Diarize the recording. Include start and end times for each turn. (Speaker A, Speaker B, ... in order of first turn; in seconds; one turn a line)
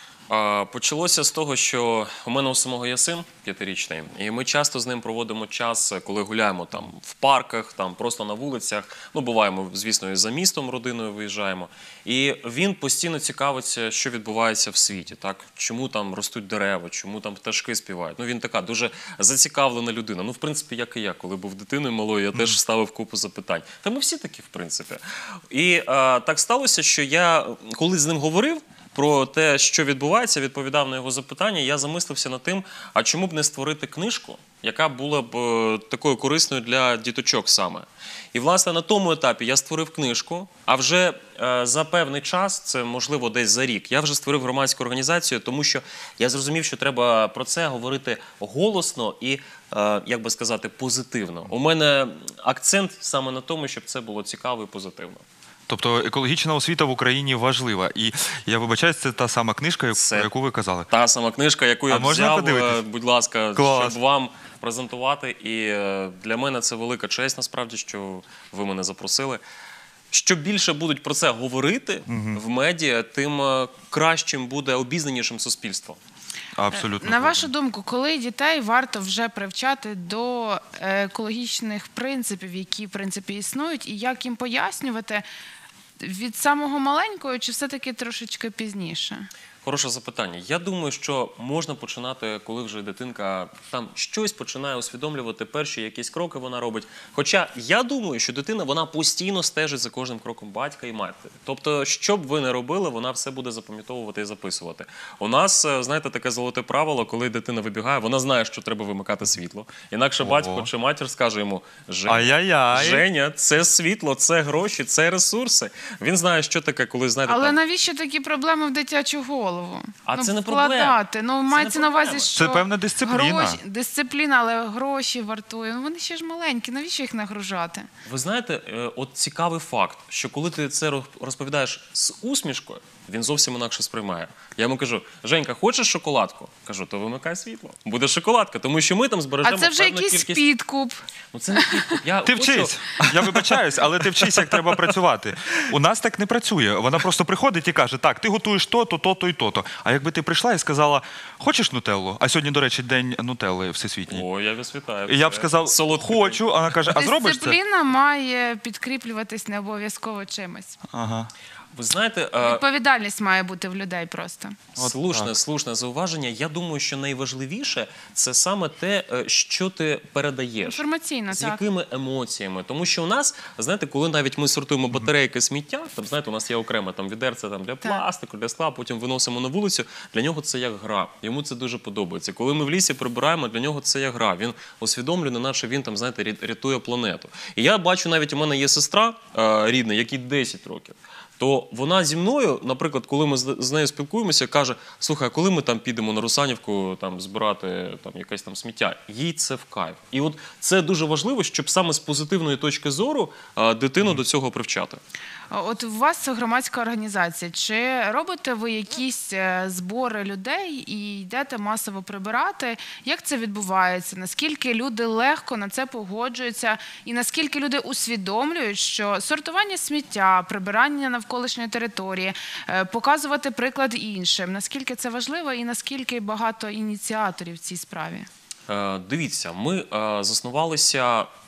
Speaker A: 0.3-55.2
Speaker B: 55.7-60.9
Speaker A: 59.9-60.3
Speaker A: 60.9-69.4
Speaker B: 61.9-62.8
Speaker B: 63.5-64.0
Speaker A: 70.1-76.0
Speaker B: 72.1-72.4
Speaker B: 76.5-77.5
Speaker C: 76.7-85.2
Speaker C: 86.0-89.3
Speaker A: 89.6-117.6
Speaker B: 110.2-110.7
Speaker B: 112.1-113.0
Speaker C: 117.2-127.9
Speaker A: 120.1-122.3
Speaker B: 122.3-123.6
Speaker A: 128.1-140.4
Speaker C: 139.4-141.0
Speaker A: 141.3-143.5
Speaker C: 141.6-142.0
Speaker B: 142.2-154.2
Speaker A: 144.2-144.8
Speaker A: 154.1-156.4
Speaker B: 155.1-157.6
Speaker C: 156.9-160.8
Speaker B: 160.9-161.3
Speaker A: 161.7-162.6
Speaker C: 162.4-164.6
Speaker A: 164.7-205.0
Speaker B: 164.8-165.3
Speaker C: 170.6-171.6
Speaker C: 205.5-228.3
Speaker A: 228.7-231.3